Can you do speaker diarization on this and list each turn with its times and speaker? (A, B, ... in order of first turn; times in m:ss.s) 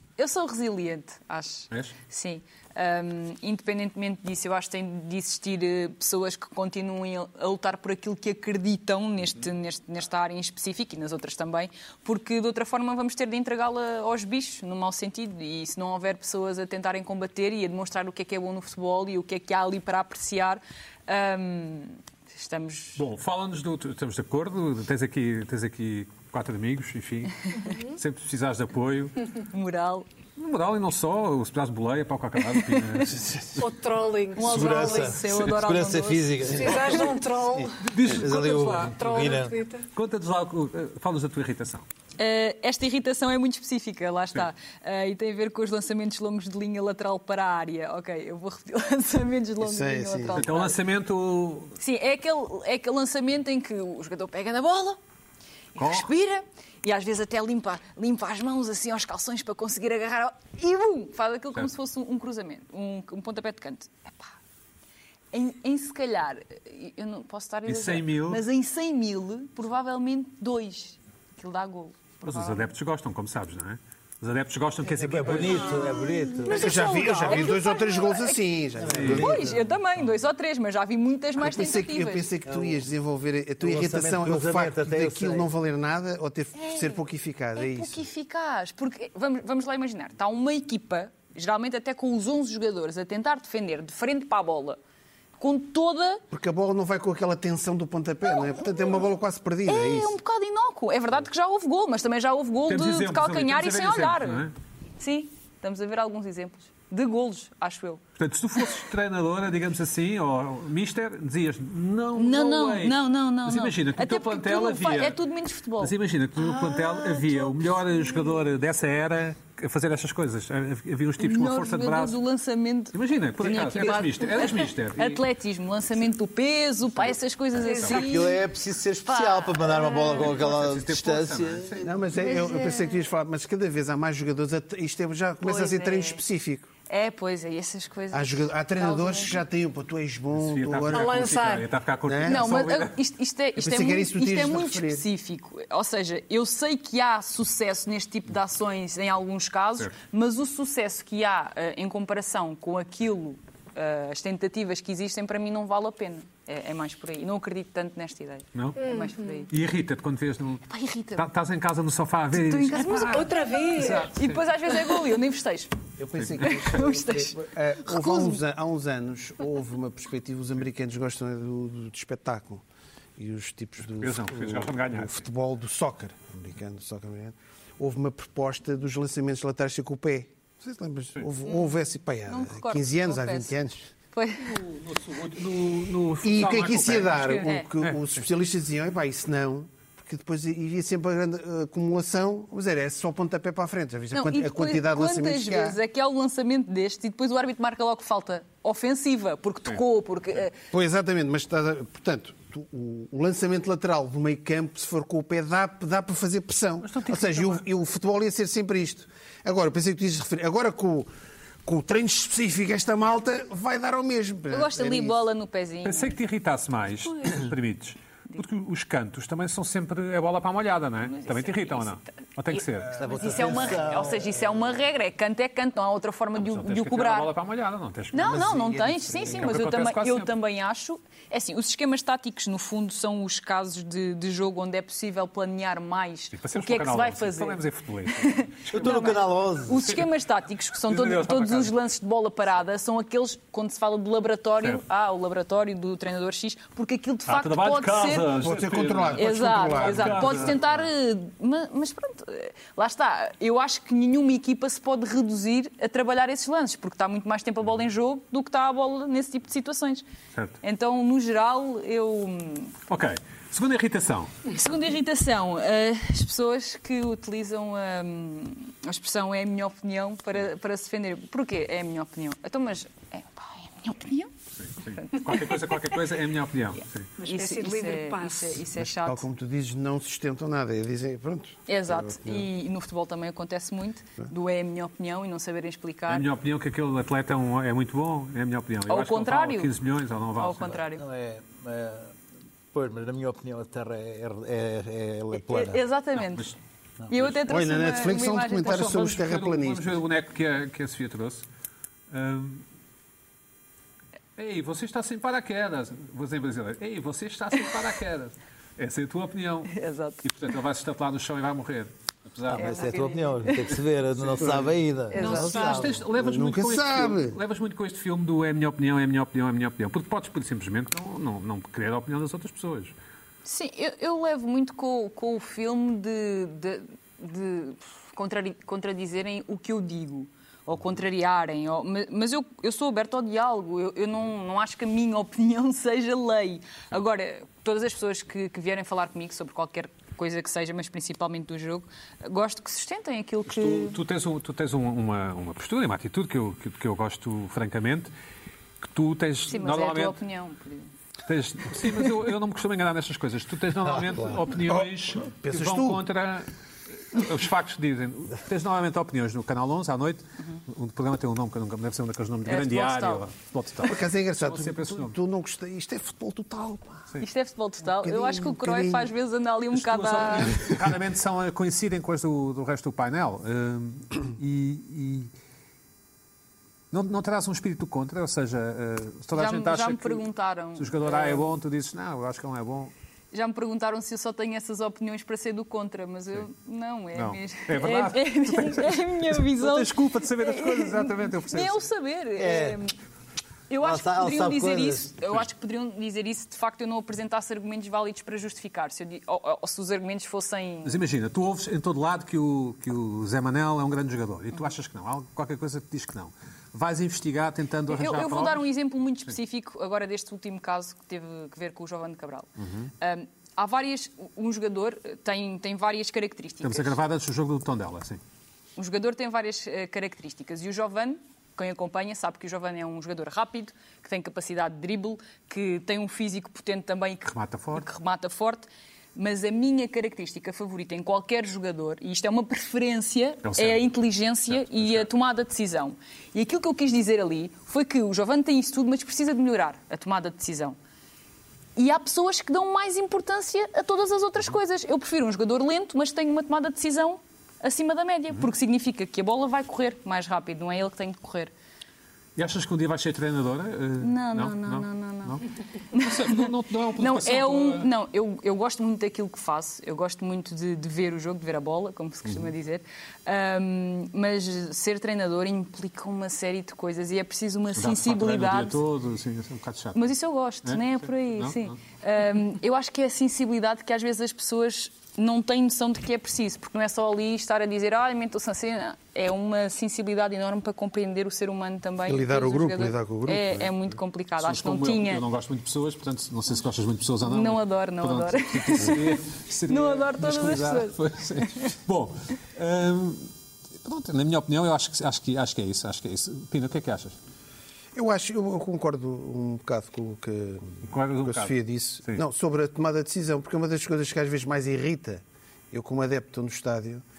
0:00.2-0:23.0 A
0:23.0-0:29.2 B
0:27.6-0:28.0 C
0:29.5-0:30.0 A
0:30.4-0:33.7 B
0:32.5-0:33.1 A
0:33.6-0:35.2 C
0:34.4-0:37.1 A
0:34.4-0:37.0 D
0:36.5-0:39.8 C
0:36.7-0:37.1 B
0:37.8-0:39.2 B
0:38.0-0:39.6 D
0:39.9-0:41.8 B
0:42.2-0:50.8 A
0:49.6-0:50.4 E
0:50.3-0:51.8 B
0:51.8-0:55.0 A
0:55.8-1:04.3 A
0:55.8-0:56.1 B
1:05.3-1:12.7 A
1:07.6-1:08.4 B
1:12.2-1:16.0 B
1:14.9-1:17.4 D
1:15.6-1:18.2 C
1:16.5-1:19.4 E
1:17.3-1:18.4 A
1:18.8-1:19.7 D
1:18.9-1:19.3 B
1:19.1-1:22.3 A
1:21.4-1:28.0 E
1:22.4-1:22.8 D
1:23.6-1:25.5 D
1:26.6-1:27.0 A
1:27.6-1:34.8 A
1:35.4-1:36.2 A
1:36.3-1:40.2 E
1:38.3-1:38.9 A
1:39.6-1:44.5 A
1:42.7-1:44.5 B
1:45.0-1:48.0 A
1:48.2-1:55.2 B
1:52.1-1:58.4 A
1:55.8-2:02.2 B
2:01.2-2:08.4 A
2:02.9-2:05.2 B
2:07.0-2:08.0 B
2:07.6-2:11.9 D
2:09.0-2:10.4 A
2:10.2-2:11.9 B
2:11.8-2:16.7 E
2:12.2-2:13.0 A
2:15.4-2:16.2 A
2:16.9-2:19.4 A
2:18.1-2:21.3 E
2:20.3-2:23.0 B
2:20.9-2:21.7 C
2:22.0-2:22.4 E
2:22.2-2:39.5 A
2:23.6-2:25.0 E
2:38.5-2:38.8 B
2:38.8-2:39.4 C
2:39.5-2:44.4 B
2:40.7-2:41.3 A
2:42.3-2:45.7 A
2:42.9-2:44.1 C
2:46.0-2:52.6 E
2:46.2-2:46.6 B
2:46.4-2:48.4 A
2:53.2-3:03.9 E
2:54.0-2:55.2 B
3:01.4-3:01.7 A
3:02.3-3:03.5 A
3:04.1-3:04.6 A
3:04.4-3:08.0 B
3:06.2-3:15.8 E
3:07.2-3:07.7 A
3:14.1-3:20.5 A
3:20.7-3:31.1 E
3:26.8-3:27.6 B
3:31.6-3:35.2 E
3:34.5-3:36.2 A
3:35.8-3:43.1 B
3:41.0-3:42.0 A
3:42.5-3:47.3 A
3:42.9-3:44.5 D
3:46.4-3:50.3 B
3:48.1-4:08.4 A
3:56.3-3:59.2 B
3:58.7-3:59.9 D
3:59.8-4:00.1 B
4:00.7-4:01.7 B
4:07.3-4:10.7 B
4:08.4-4:10.6 E
4:09.2-4:20.0 A
4:20.6-4:22.7 A
4:22.9-4:24.3 B
4:24.5-4:34.3 A
4:34.6-4:37.1 B
4:34.9-4:36.0 A
4:37.2-4:38.6 C
4:37.2-4:39.2 A
4:38.8-4:42.5 E
4:41.7-4:46.3 A
4:46.1-4:50.8 B
4:48.9-4:49.7 A
4:50.4-4:51.0 A
4:51.0-4:52.1 D
4:52.7-4:55.8 D
4:55.3-4:56.5 A
4:56.2-4:56.6 B
4:57.1-4:59.0 A
4:57.4-5:00.0 E
4:58.6-5:01.4 B
5:02.1-5:02.6 B
5:04.4-5:12.8 B
5:09.7-5:10.2 A
5:12.5-5:16.0 D
5:12.5-5:13.8 A
5:14.2-5:22.9 B
5:15.1-5:15.7 A
5:15.1-5:16.0 C
5:16.1-5:17.4 E
5:23.4-5:44.0 A
5:43.5-5:48.1 B
5:48.8-5:50.2 B
5:49.5-5:50.9 A
5:51.2-5:56.5 B
5:54.6-5:56.0 E
5:57.0-6:05.1 B
6:02.4-6:03.2 A
6:03.8-6:07.1 E
6:07.2-6:10.8 A
6:08.0-6:09.1 E
6:09.7-6:15.3 B
6:16.9-6:22.9 B
6:19.3-6:21.4 A
6:23.3-6:32.9 A
6:27.1-6:31.8 B
6:32.4-6:32.8 D
6:33.7-6:41.0 A
6:33.8-6:35.1 D
6:40.8-6:48.7 B
6:47.9-6:57.0 A
6:52.6-6:52.9 B
6:56.6-6:58.2 B
6:58.8-7:20.8 A
7:07.2-7:07.8 B
7:13.4-7:13.9 B
7:14.5-7:15.1 B
7:21.8-7:31.5 A
7:32.4-7:35.4 B
7:34.0-7:35.4 A
7:35.9-7:48.8 A
7:35.9-7:37.9 B
7:47.7-7:50.1 B
7:49.9-8:05.2 A
7:50.6-7:51.7 B
8:02.0-8:03.7 E
8:04.4-8:13.3 B
8:07.2-8:11.7 A
8:13.8-8:17.2 B
8:17.9-8:27.0 E
8:20.8-8:22.2 B